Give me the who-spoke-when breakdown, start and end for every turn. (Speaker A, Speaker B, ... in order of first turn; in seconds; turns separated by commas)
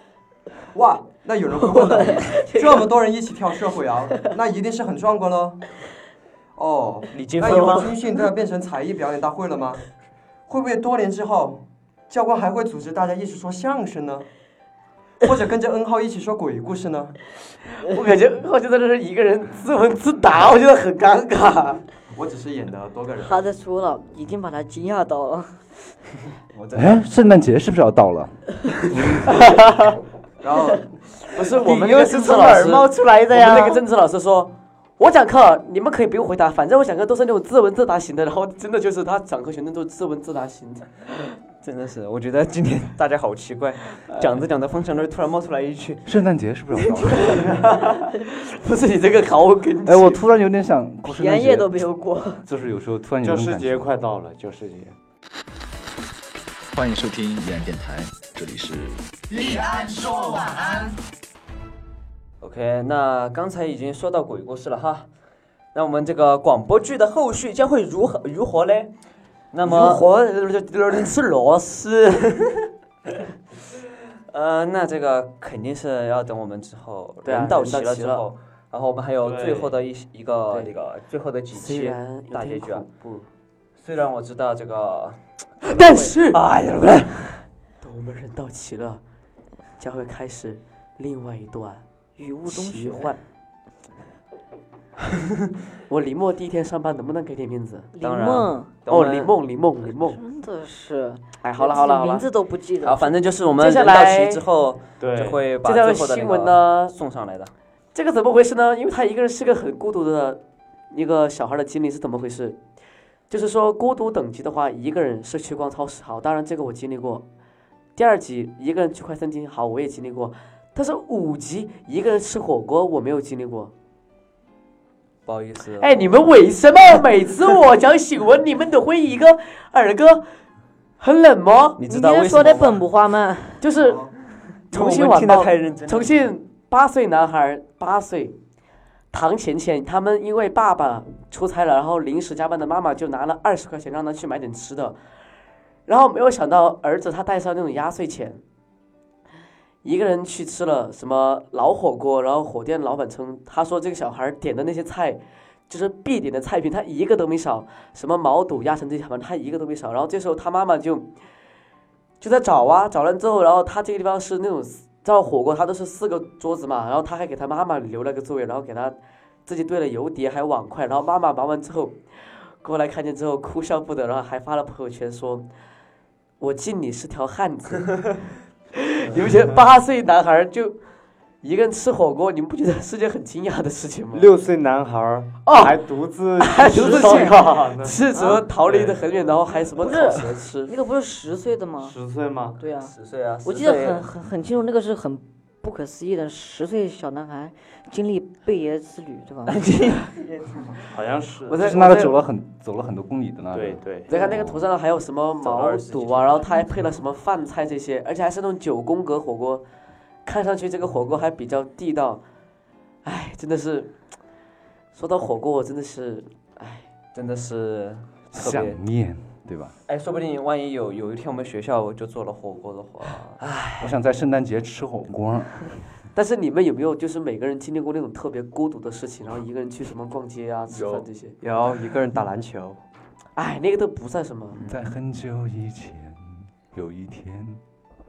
Speaker A: 0.7-5.7, Speaker B: 1.7-2.9, Speaker A: 6.6-9.8, Speaker C: 7.1-7.9, Speaker A: 10.5-14.3, Speaker A: 15.2-17.2, Speaker D: 17.8-21.8, Speaker A: 22.1-23.4, Speaker B: 23.3-25.6, Speaker C: 26.5-27.0, Speaker E: 26.7-28.7, Speaker A: 30.4-30.9, Speaker D: 31.2-40.9, Speaker C: 31.6-33.7, Speaker F: 32.1-33.7, Speaker C: 41.6-46.1, Speaker E: 46.1-47.5, Speaker D: 46.9-50.2, Speaker E: 49.9-51.9, Speaker B: 51.0-52.5, Speaker E: 52.5-53.9, Speaker F: 53.2-55.0, Speaker G: 56.7-59.6, Speaker C: 62.4-65.1, Speaker C: 65.7-68.9, Speaker C: 69.5-70.0, Speaker D: 69.6-72.3, Speaker C: 74.3-82.8, Speaker D: 77.2-78.2, Speaker F: 79.2-79.7, Speaker D: 81.5-83.3, Speaker C: 83.8-87.4, Speaker D: 85.6-86.4, Speaker D: 87.8-89.0, Speaker D: 89.8-91.8, Speaker B: 92.2-93.1, Speaker D: 92.5-93.2, Speaker D: 95.9-97.9, Speaker B: 97.9-98.7, Speaker C: 98.0-99.3, Speaker D: 98.9-100.2, Speaker B: 100.0-103.1, Speaker D: 101.4-102.3, Speaker C: 102.8-107.5, Speaker D: 103.6-104.4, Speaker F: 105.0-105.5, Speaker D: 105.6-106.9, Speaker D: 108.0-112.6, Speaker D: 113.3-117.2, Speaker D: 118.0-123.7, Speaker C: 125.3-126.3, Speaker D: 125.8-130.3, Speaker D: 131.0-131.8, Speaker C: 131.8-132.8, Speaker B: 131.9-133.7, Speaker D: 133.6-134.1, Speaker C: 134.7-136.3, Speaker D: 134.7-138.4, Speaker D: 139.1-145.0, Speaker D: 145.9-148.4, Speaker D: 149.8-161.1, Speaker D: 162.2-175.5, Speaker D: 176.4-178.2, Speaker D: 178.8-180.8, Speaker D: 181.4-184.3, Speaker F: 184.1-188.0, Speaker D: 185.4-185.8, Speaker D: 186.4-190.7, Speaker B: 186.8-187.3, Speaker B: 188.1-188.4, Speaker B: 189.8-191.9, Speaker F: 191.8-192.6, Speaker B: 192.6-192.9, Speaker C: 192.8-194.1, Speaker B: 193.4-199.7, Speaker C: 199.5-200.9, Speaker F: 200.9-201.7, Speaker D: 201.5-202.2, Speaker E: 201.6-204.4, Speaker F: 203.5-204.1, Speaker D: 204.1-209.7, Speaker C: 205.4-206.6, Speaker D: 210.2-212.2, Speaker D: 213.1-213.9, Speaker D: 214.9-216.9, Speaker C: 217.1-218.8, Speaker E: 218.3-219.7, Speaker C: 219.9-223.9, Speaker E: 223.8-225.8, Speaker D: 226.1-231.4, Speaker A: 231.4-232.8, Speaker D: 233.4-234.6, Speaker E: 234.7-237.6